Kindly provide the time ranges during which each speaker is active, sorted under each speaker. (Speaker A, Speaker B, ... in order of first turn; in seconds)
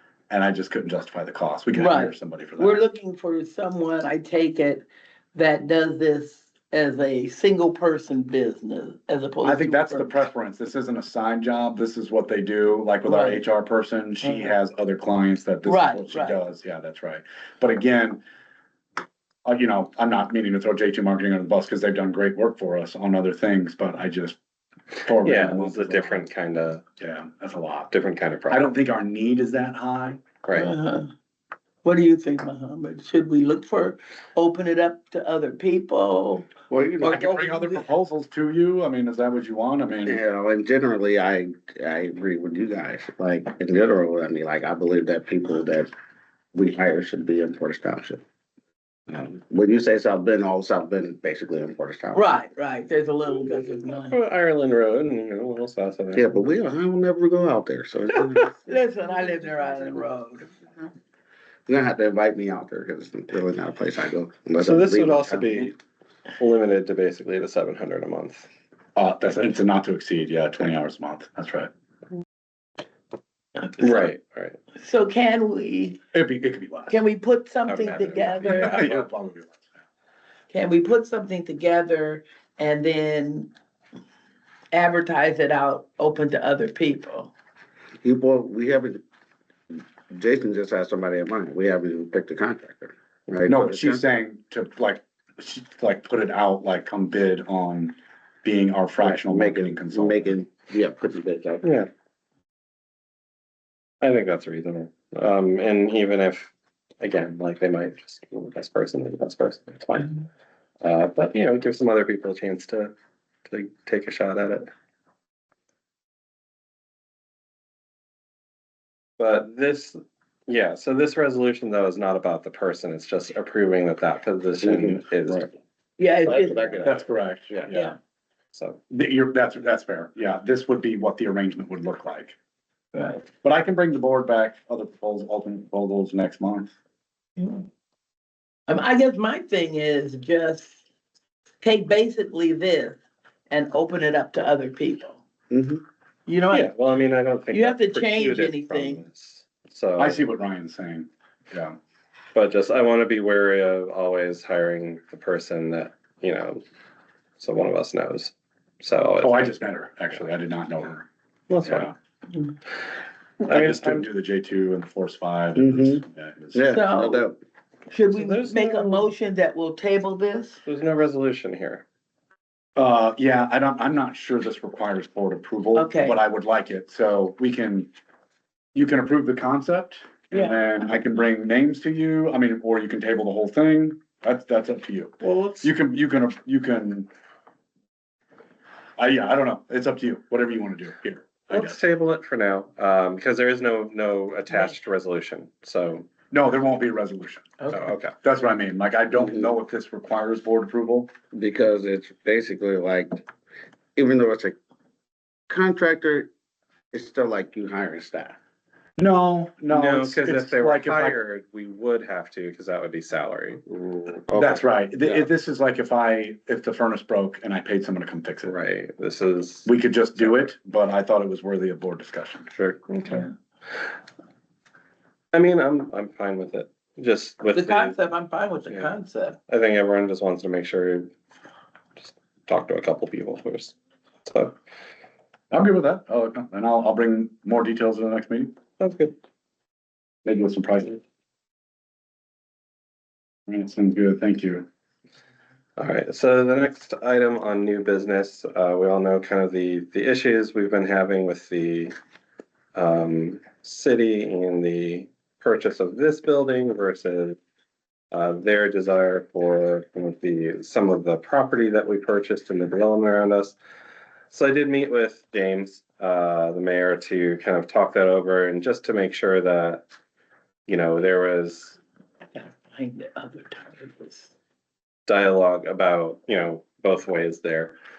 Speaker A: 0.3-2.8, 9.4-18.2, 19.4-24.4, 25.0-26.3, 27.0-27.9, 28.5-30.2, 37.0-40.2, 69.0-71.7, 76.1-77.0, 78.4-79.7, 93.5-100.4, 126.8-127.9, 128.9-132.4, 133.2-136.7, 150.0-151.8, 159.2-161.1, 161.7-161.9, 163.5-166.6, 172.8-177.9, 178.7-187.1, 189.0-191.8, 196.3-201.1, 209.0-211.2, 214.3-218.5, 219.7-222.5, 235.5-238.5, 240.2-241.0, 243.5-244.7
Speaker B: 1.7-10.2, 13.1-13.4, 14.2-14.6, 15.7-16.4, 30.5-31.1, 31.8-37.8, 52.1-54.2, 58.6-60.5, 73.8-74.1, 74.8-76.0, 76.9-78.8, 80.5-83.5, 84.7-87.3, 126.0-126.8, 137.4-137.7, 138.7-140.8, 141.6-143.0, 143.5-145.2, 146.3-146.7, 147.5-149.0, 166.7-167.2, 167.9-170.6, 175.7-176.2, 180.3-180.6, 197.6-197.9, 227.5-229.4, 272.3-274.3
Speaker C: 25.2-26.8, 27.9-28.6, 30.4-30.7, 53.3-56.3, 64.6-65.8, 66.4-68.5, 73.8-74.6, 77.7-79.1, 104.0-110.2, 110.8-112.9, 113.5-114.7, 119.2-120.0, 120.5-125.5, 128.5-128.8, 146.5-150.2, 152.3-156.6, 157.4-159.4, 161.5-161.9, 163.4-164.1, 168.1-169.1, 170.7-171.8, 185.2-185.7, 191.5-196.1, 197.7-198.1, 209.7-214.6, 218.4-220.5, 222.5-223.3, 225.3-228.0, 229.5-231.1, 232.0-233.7, 234.3-234.6, 238.8-239.2, 245.8-251.9, 252.8-257.4, 258.1-263.6, 264.3-269.8, 270.7-271.8, 275.1-277.7
Speaker D: 36.7-37.3, 40.1-45.9, 46.5-48.2, 49.1-52.3, 56.1-60.9, 61.7-65.7, 88.0-89.0, 89.7-94.0, 99.0-101.7, 124.6-125.5, 126.2-127.7, 145.5-145.8, 165.6-166.0, 166.5-167.4, 199.2-199.5, 201.3-203.2, 204.0-204.6, 205.5-206.3, 206.9-208.4